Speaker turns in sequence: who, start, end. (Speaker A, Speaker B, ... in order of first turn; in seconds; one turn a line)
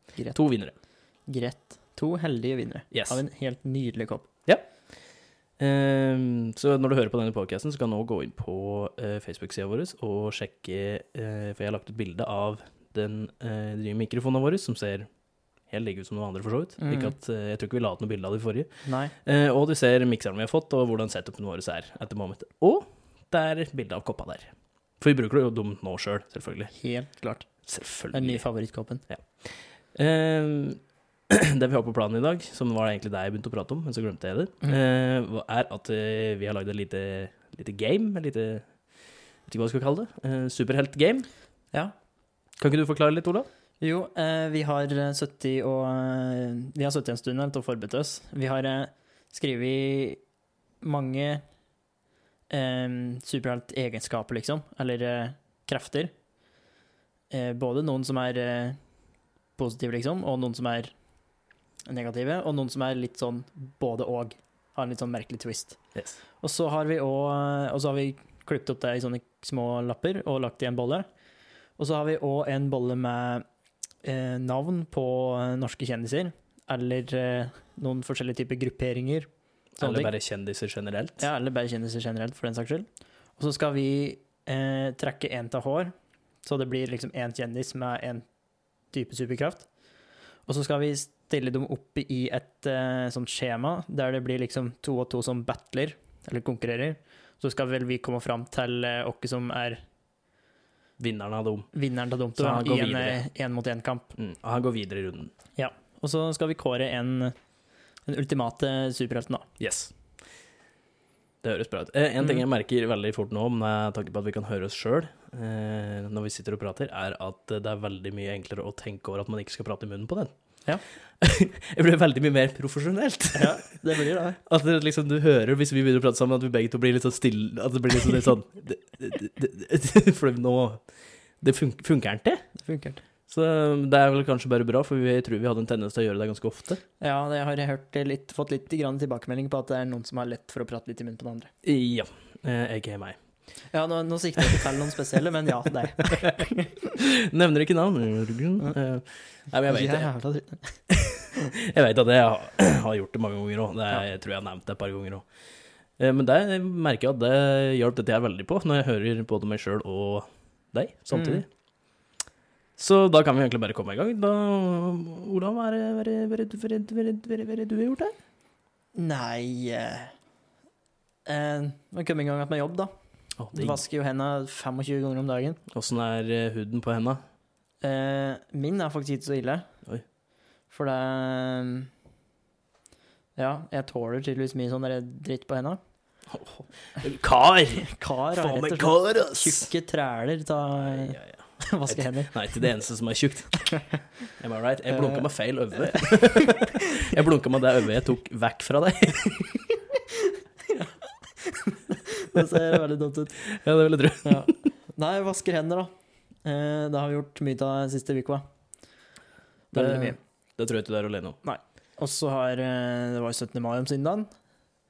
Speaker A: 0.3-0.8
Speaker B: 1.3-4.3
Speaker A: 2.9-3.2
Speaker A: 5.6-15.1
Speaker A: 15.7-18.7
Speaker B: 16.8-17.1
Speaker B: 18.9-19.1
Speaker A: 19.2-26.7
Speaker B: 26.8-27.5
Speaker A: 27.7-28.4
Speaker B: 28.1-29.0
Speaker A: 29.1-38.7
Speaker A: 39.5-41.3
Speaker A: 42.6-43.5
Speaker B: 43.8-50.2
Speaker B: 50.8-51.4
Speaker B: 52.5-56.1
Speaker B: 57.3-58.8
Speaker B: 59.6-60.9
Speaker B: 61.9-65.8
Speaker A: 66.0-66.2
Speaker B: 66.4-71.1
Speaker B: 71.8-73.5
Speaker B: 74.0-80.1
Speaker A: 79.8-81.3
Speaker B: 81.2-82.9
Speaker B: 83.4-85.9
Speaker B: 86.5-88.3
Speaker B: 88.9-89.7
Speaker B: 90.5-99.8
Speaker A: 101.0-101.7
Speaker B: 101.7-104.1
Speaker A: 102.4-103.3
Speaker A: 104.2-105.3
Speaker B: 105.6-107.3
Speaker B: 108.1-109.5
Speaker A: 109.6-109.9
Speaker A: 111.4-120.3
Speaker A: 121.2-130.8
Speaker B: 123.3-124.4
Speaker A: 131.4-132.4
Speaker B: 132.6-133.0
Speaker A: 133.3-136.8
Speaker B: 137.0-141.5
Speaker A: 141.6-143.2
Speaker B: 143.7-147.0
Speaker A: 144.4-144.7
Speaker A: 146.0-150.1
Speaker B: 149.6-150.8
Speaker A: 150.9-155.3
Speaker A: 156.0-161.5
Speaker B: 161.1-161.4
Speaker A: 162.8-168.2
Speaker B: 168.9-170.1
Speaker B: 171.3-172.9
Speaker A: 173.4-173.8
Speaker B: 173.5-175.6
Speaker A: 175.7-177.2
Speaker B: 177.8-179.7
Speaker B: 180.7-181.9
Speaker B: 183.4-185.8
Speaker A: 186.3-189.7
Speaker B: 187.8-192.6
Speaker A: 190.8-193.7
Speaker B: 193.7-194.0
Speaker A: 194.4-199.6
Speaker B: 194.9-195.3
Speaker B: 195.8-197.1
Speaker B: 200.7-203.4
Speaker A: 202.3-202.8
Speaker A: 203.4-204.5
Speaker B: 204.2-205.9
Speaker B: 206.4-208.4
Speaker B: 209.7-210.2
Speaker A: 209.7-211.4
Speaker B: 211.4-214.3